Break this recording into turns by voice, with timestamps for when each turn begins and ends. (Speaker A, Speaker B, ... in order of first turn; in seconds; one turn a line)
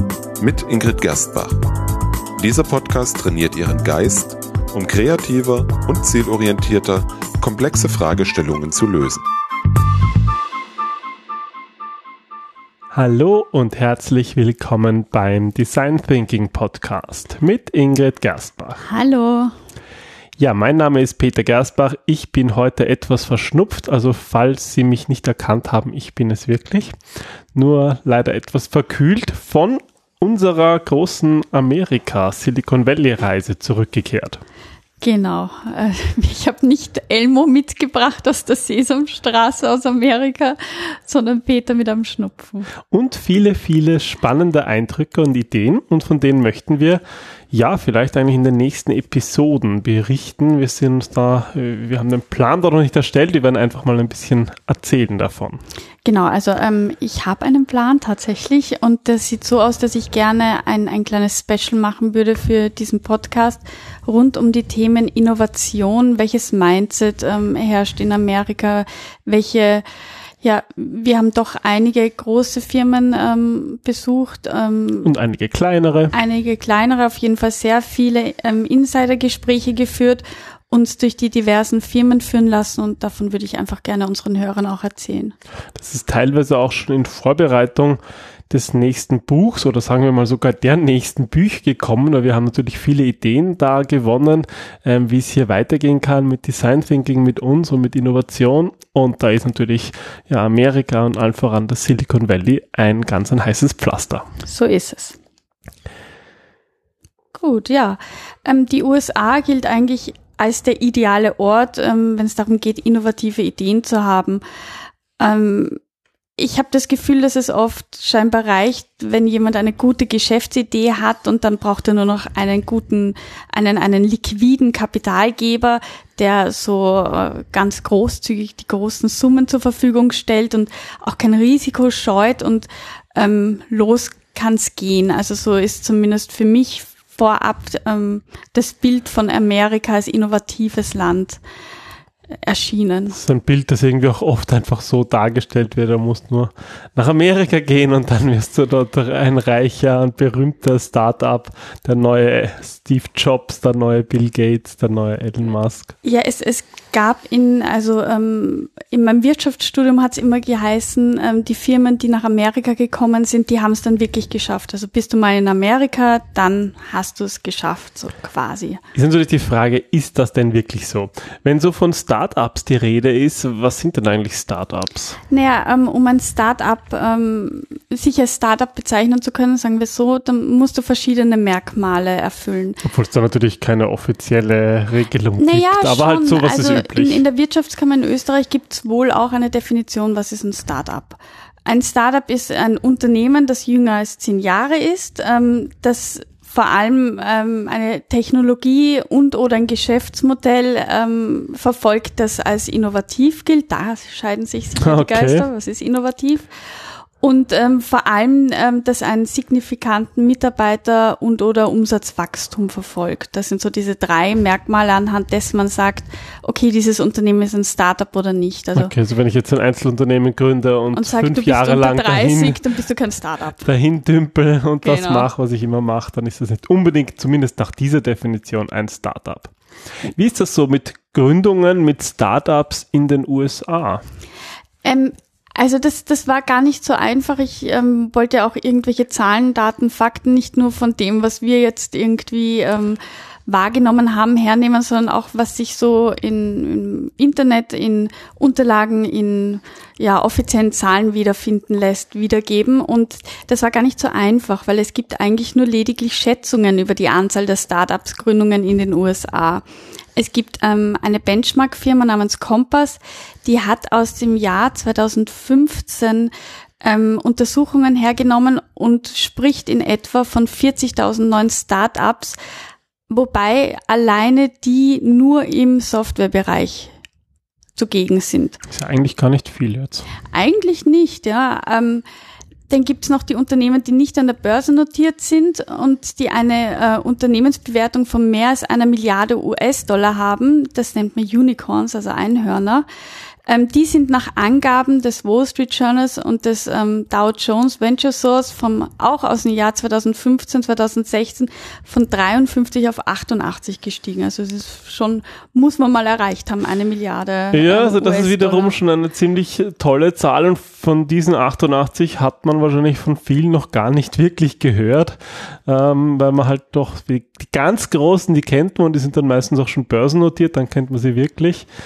Speaker A: 0.4-1.6
Speaker A: 2.4-9.2
Speaker B: 12.9-18.8
Speaker C: 18.8-19.6
Speaker B: 20.4-26.9
Speaker B: 27.5-34.4
Speaker C: 35.0-42.7
Speaker B: 42.9-47.0
Speaker B: 47.5-55.6
Speaker C: 56.0-69.8
Speaker C: 70.4-75.1
Speaker B: 75.0-76.1
Speaker C: 76.1-85.3
Speaker B: 85.8-88.0
Speaker B: 88.5-104.2
Speaker C: 104.4-105.2
Speaker C: 107.3-114.4
Speaker C: 115.2-115.8
Speaker C: 116.4-141.4
Speaker C: 142.4-143.2
Speaker B: 143.1-155.9
Speaker C: 156.0-168.8
Speaker B: 168.9-175.2
Speaker C: 175.3-182.8
Speaker B: 182.8-187.2
Speaker C: 185.4-218.9
Speaker B: 204.8-205.5
Speaker B: 218.8-222.6
Speaker C: 220.9-223.7
Speaker B: 223.6-229.5
Speaker C: 224.8-225.3
Speaker B: 230.1-234.0
Speaker C: 234.8-259.6
Speaker C: 260.2-266.3
Speaker C: 266.8-272.4
Speaker C: 273.1-276.9
Speaker C: 277.8-278.6
Speaker B: 278.7-280.1
Speaker C: 280.3-282.1
Speaker C: 282.7-292.9
Speaker C: 293.5-308.8
Speaker B: 307.5-321.7